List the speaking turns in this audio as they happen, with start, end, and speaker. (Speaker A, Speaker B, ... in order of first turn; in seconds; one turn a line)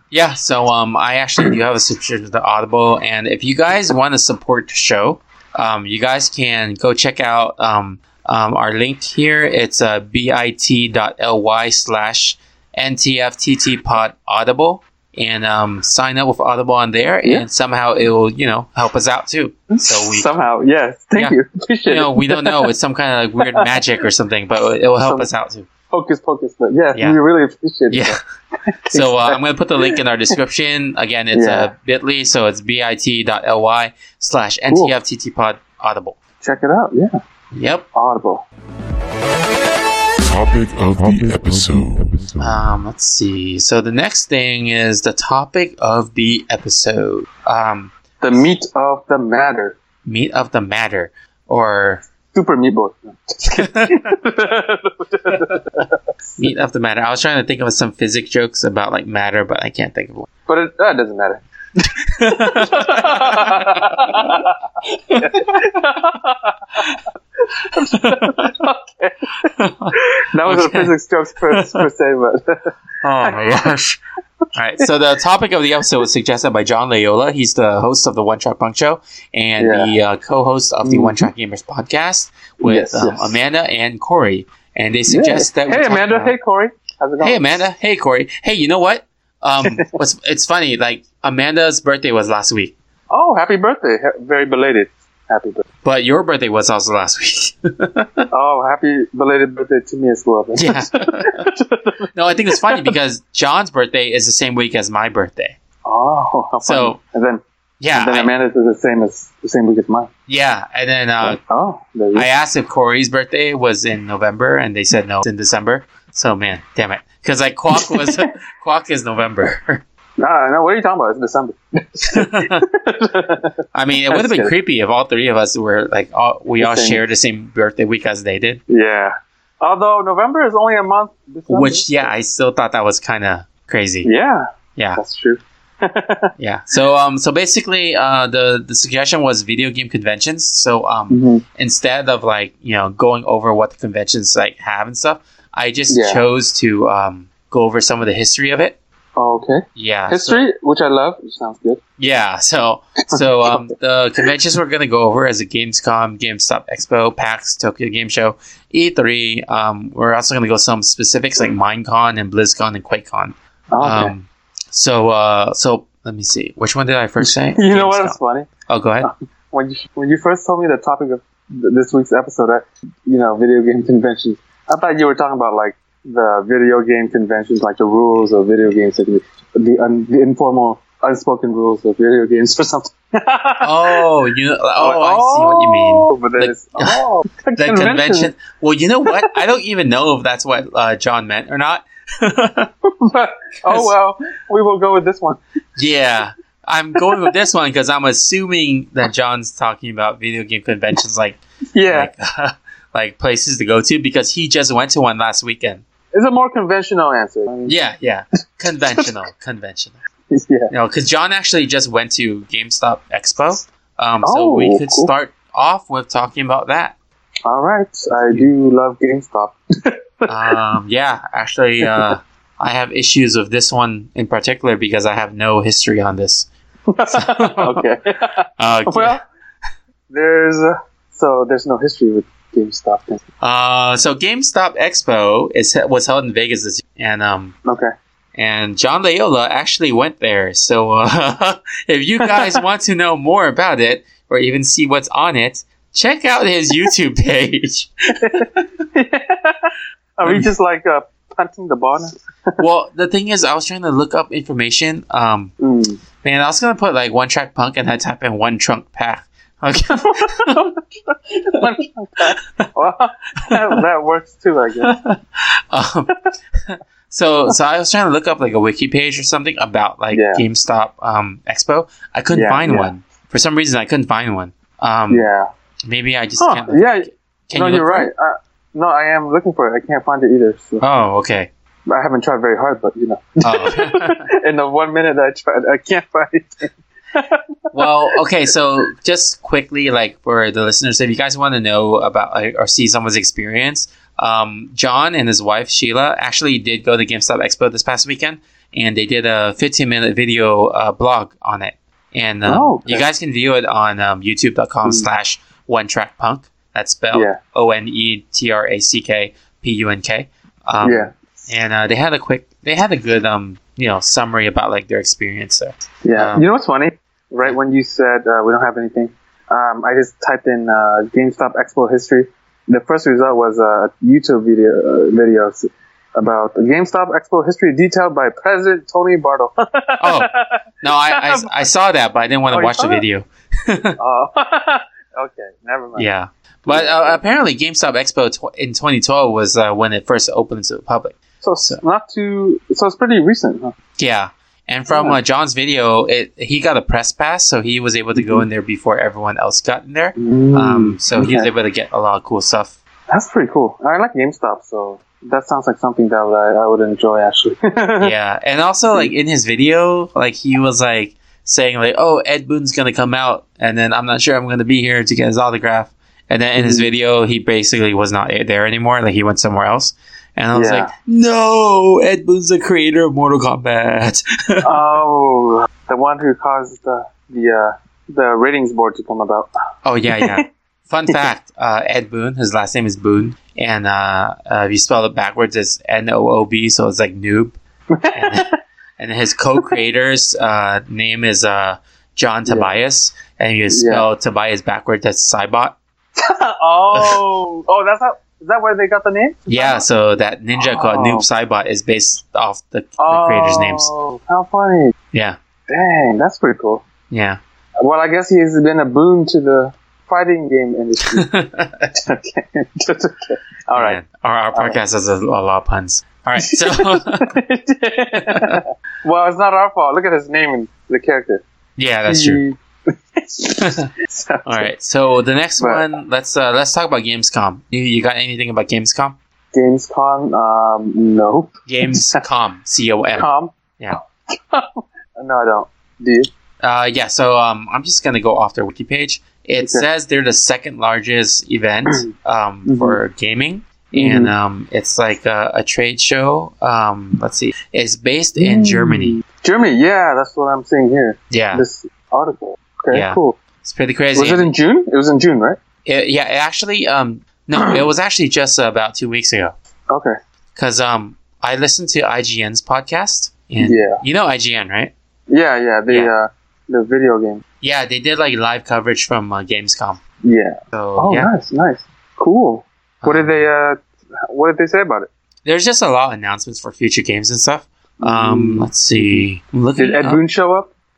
Speaker A: 0.1-20.3
Speaker B: 19.7-22.7
Speaker A: 21.1-25.7
Speaker B: 23.4-23.7
Speaker B: 25.0-25.3
Speaker B: 25.9-30.0
Speaker A: 26.9-27.2
Speaker A: 27.9-28.2
Speaker A: 28.9-36.2
Speaker B: 31.3-31.7
Speaker B: 36.4-37.2
Speaker A: 37.5-37.9
Speaker B: 37.9-38.5
Speaker C: 40.2-42.7
Speaker A: 42.4-47.9
Speaker B: 48.2-49.8
Speaker A: 50.0-52.0
Speaker B: 52.3-55.9
Speaker A: 53.6-54.0
Speaker A: 56.4-60.3
Speaker B: 60.5-61.4
Speaker A: 62.1-64.3
Speaker B: 62.2-64.5
Speaker A: 65.1-65.7
Speaker B: 65.1-67.0
Speaker B: 67.6-73.7
Speaker A: 67.9-68.5
Speaker A: 69.5-70.9
Speaker A: 71.5-71.9
Speaker A: 73.0-74.0
Speaker A: 74.5-86.4
Speaker B: 79.6-79.9
Speaker B: 80.8-81.3
Speaker B: 82.6-83.4
Speaker B: 85.1-87.6
Speaker A: 87.2-92.8
Speaker B: 93.1-95.7
Speaker A: 95.8-98.3
Speaker B: 98.3-102.9
Speaker A: 100.6-101.5
Speaker A: 102.1-105.6
Speaker B: 105.8-107.4
Speaker A: 106.6-107.0
Speaker A: 107.8-108.3
Speaker B: 108.0-110.1
Speaker A: 110.3-111.4
Speaker B: 111.2-112.3
Speaker A: 112.1-119.8
Speaker B: 117.8-118.2
Speaker B: 120.2-123.5
Speaker A: 122.1-122.6
Speaker A: 123.7-128.6
Speaker B: 124.1-124.5
Speaker B: 126.6-127.0
Speaker B: 128.7-132.1
Speaker A: 131.5-134.1
Speaker B: 134.0-136.3
Speaker A: 134.8-135.0
Speaker A: 136.4-148.8
Speaker B: 141.1-141.4
Speaker B: 145.9-146.2
Speaker B: 149.2-151.8
Speaker A: 149.8-150.5
Speaker A: 152.0-169.1
Speaker B: 153.1-154.3
Speaker B: 163.7-164.1
Speaker B: 167.2-168.5
Speaker B: 169.0-184.1
Speaker A: 183.6-187.0
Speaker B: 184.8-188.3
Speaker A: 187.6-192.7
Speaker B: 189.1-189.3
Speaker B: 192.9-195.4
Speaker A: 193.7-193.9
Speaker A: 195.8-205.8
Speaker B: 201.7-202.1
Speaker B: 206.1-207.7
Speaker A: 207.7-210.0
Speaker B: 210.3-210.7
Speaker A: 210.7-217.0
Speaker B: 214.2-215.1
Speaker B: 217.5-220.6
Speaker A: 220.3-226.5
Speaker B: 221.8-222.1
Speaker B: 226.9-229.2
Speaker A: 227.1-227.9
Speaker A: 228.6-229.2
Speaker B: 230.1-233.2
Speaker A: 233.4-237.6
Speaker B: 237.7-237.9
Speaker A: 238.3-248.4
Speaker B: 242.2-242.6
Speaker B: 248.2-252.6
Speaker A: 250.2-250.5
Speaker A: 252.6-255.6
Speaker B: 255.6-256.0
Speaker A: 256.2-260.6
Speaker B: 260.0-265.0
Speaker A: 264.8-266.1
Speaker A: 266.7-275.3
Speaker B: 270.1-270.4
Speaker B: 272.3-272.9
Speaker B: 275.1-275.5
Speaker A: 275.9-278.1
Speaker B: 276.4-280.8
Speaker A: 280.8-281.5
Speaker B: 281.9-288.2
Speaker A: 283.4-284.2
Speaker A: 287.7-316.5
Speaker B: 302.5-303.1
Speaker B: 307.1-307.4
Speaker B: 310.8-311.2
Speaker B: 316.0-331.5
Speaker A: 330.0-330.3
Speaker A: 330.8-334.0
Speaker B: 332.5-333.0
Speaker B: 334.0-336.1
Speaker A: 336.0-341.8
Speaker B: 336.7-337.2
Speaker B: 341.4-343.7
Speaker A: 344.0-352.8
Speaker B: 344.9-345.2
Speaker B: 348.2-348.4
Speaker B: 350.2-351.5
Speaker B: 353.1-358.1
Speaker A: 358.0-374.8
Speaker B: 366.6-366.9
Speaker B: 370.5-370.9
Speaker B: 374.6-379.5
Speaker A: 379.9-387.6
Speaker B: 380.1-380.4
Speaker B: 387.9-388.5
Speaker A: 388.1-388.5
Speaker A: 389.0-395.8
Speaker B: 392.5-392.7
Speaker B: 393.7-394.1
Speaker B: 396.2-399.8
Speaker A: 396.9-397.2
Speaker A: 399.5-403.9
Speaker B: 400.6-401.2
Speaker B: 403.0-404.9
Speaker A: 405.1-405.4
Speaker B: 405.7-406.9
Speaker A: 407.1-407.4
Speaker B: 407.8-411.3
Speaker A: 411.1-411.9
Speaker B: 411.9-414.0
Speaker A: 413.7-417.3
Speaker B: 416.4-421.4
Speaker A: 418.2-418.6
Speaker A: 421.8-422.4
Speaker B: 422.1-424.7
Speaker A: 423.6-423.9
Speaker A: 424.4-429.2
Speaker B: 425.6-425.9
Speaker B: 429.5-432.2
Speaker A: 431.7-434.0
Speaker B: 433.1-436.3
Speaker A: 436.6-449.2
Speaker B: 439.6-439.9
Speaker B: 442.7-443.0
Speaker B: 443.9-444.3
Speaker B: 448.4-453.4
Speaker A: 451.3-451.6
Speaker A: 452.9-454.5
Speaker B: 454.1-455.6
Speaker A: 455.9-459.6
Speaker B: 459.9-460.2
Speaker A: 460.6-464.9
Speaker B: 463.6-464.0
Speaker B: 465.3-467.4
Speaker A: 467.6-470.0
Speaker B: 470.2-475.1
Speaker A: 470.7-471.3
Speaker A: 473.0-473.4
Speaker A: 475.4-480.2
Speaker B: 478.0-479.2
Speaker B: 479.8-480.7